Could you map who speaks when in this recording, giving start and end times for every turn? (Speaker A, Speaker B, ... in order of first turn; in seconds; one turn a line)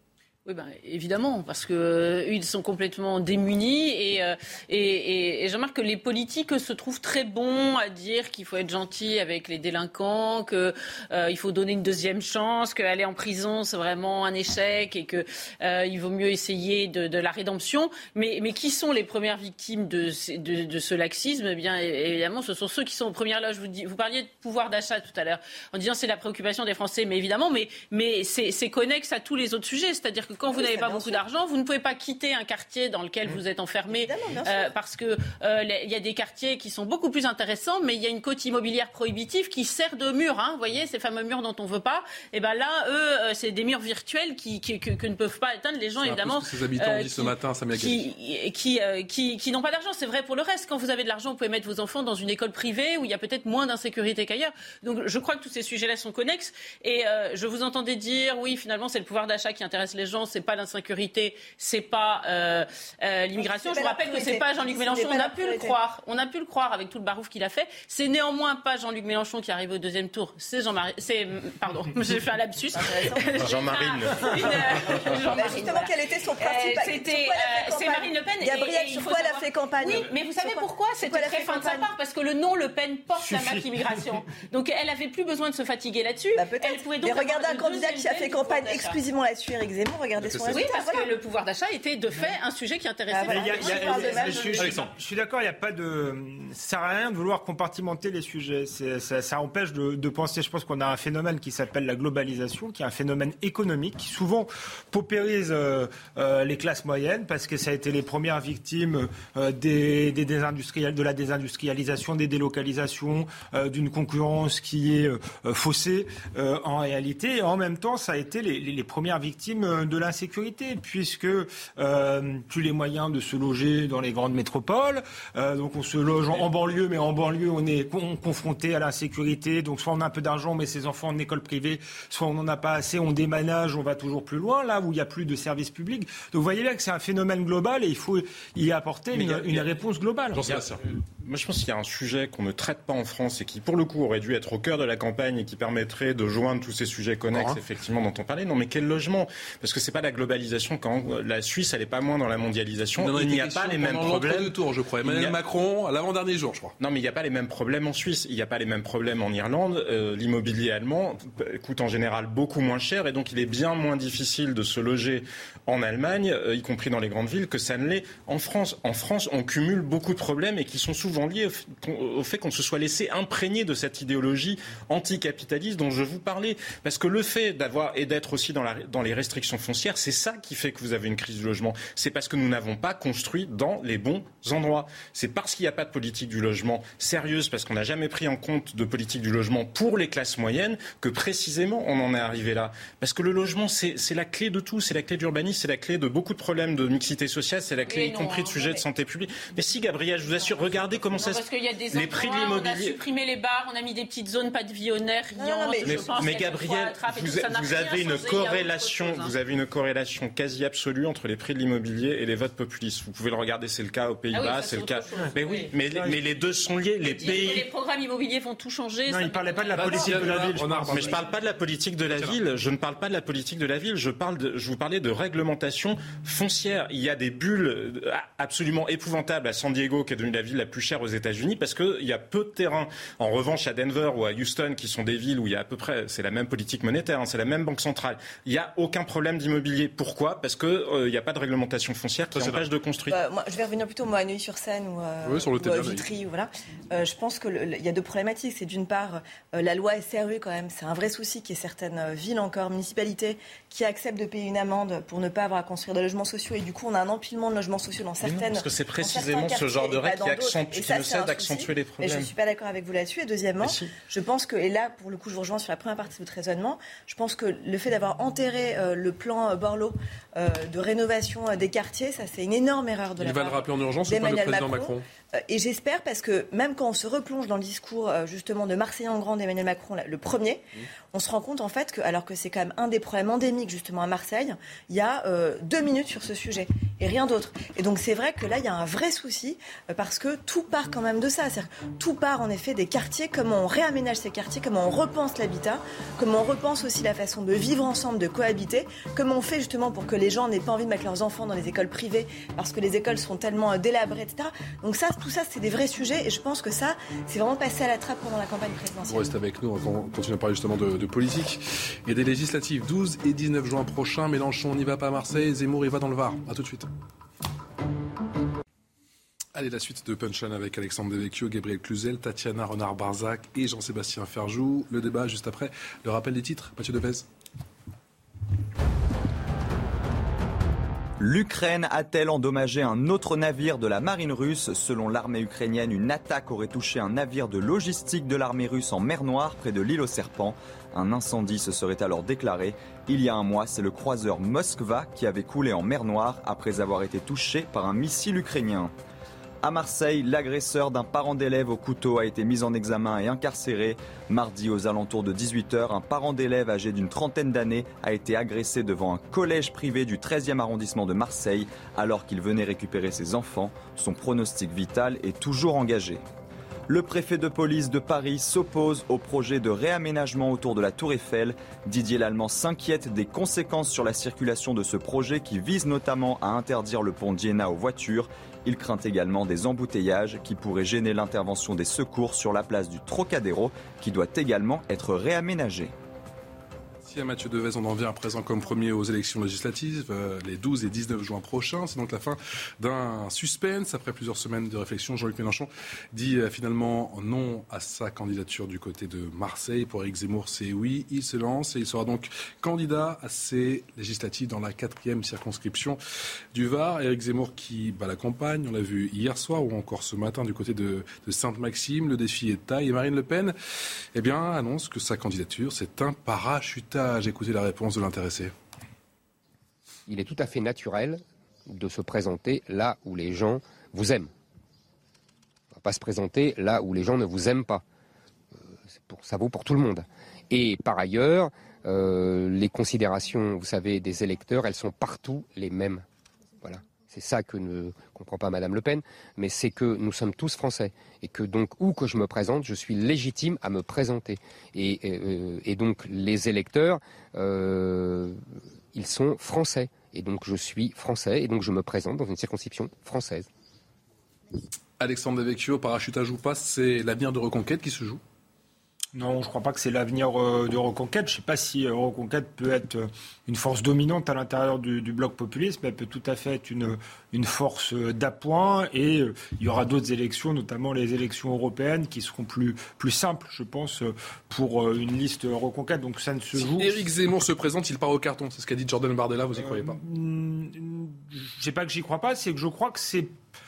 Speaker A: 0.5-89.0
Speaker B: 30.5-31.2
Speaker B: 33.9-34.7
Speaker C: 46.0-48.1
Speaker B: 63.4-65.8
Speaker B: 72.8-73.3
Speaker D: 73.4-74.8
Speaker B: 75.3-81.9
Speaker D: 83.3-83.6
Speaker B: 86.3-91.1
Speaker C: 90.2-90.6
Speaker A: 90.5-94.8
Speaker B: 93.1-94.8
Speaker E: 93.3-140.4
Speaker C: 94.6-94.9
Speaker D: 139.1-139.6
Speaker C: 140.3-140.9
Speaker D: 141.2-155.4
Speaker C: 147.3-147.6
Speaker C: 153.0-156.8
Speaker D: 156.8-203.0
Speaker A: 197.9-198.8
Speaker A: 201.2-209.3
Speaker B: 205.3-206.2
Speaker D: 205.8-217.7
Speaker A: 214.3-215.7
Speaker A: 217.0-220.2
Speaker E: 219.1-221.2
Speaker C: 219.7-221.3
Speaker D: 220.9-243.2
Speaker C: 222.1-222.4
Speaker C: 242.3-242.7
Speaker B: 243.1-309.3
Speaker C: 245.2-246.1
Speaker D: 258.2-262.3
Speaker D: 263.6-263.9
Speaker C: 273.2-275.0
Speaker C: 309.1-316.9
Speaker C: 319.6-327.3
Speaker F: 331.2-348.9
Speaker F: 349.6-366.2
Speaker F: 366.9-385.9
Speaker C: 387.0-406.0
Speaker C: 406.5-413.6
Speaker C: 414.1-418.5
Speaker G: 420.1-424.3
Speaker G: 425.8-427.8
Speaker G: 428.6-436.1
Speaker G: 436.6-448.4
Speaker G: 448.9-453.5
Speaker C: 455.0-458.2
Speaker E: 459.1-477.0
Speaker C: 476.6-480.0
Speaker E: 479.6-483.3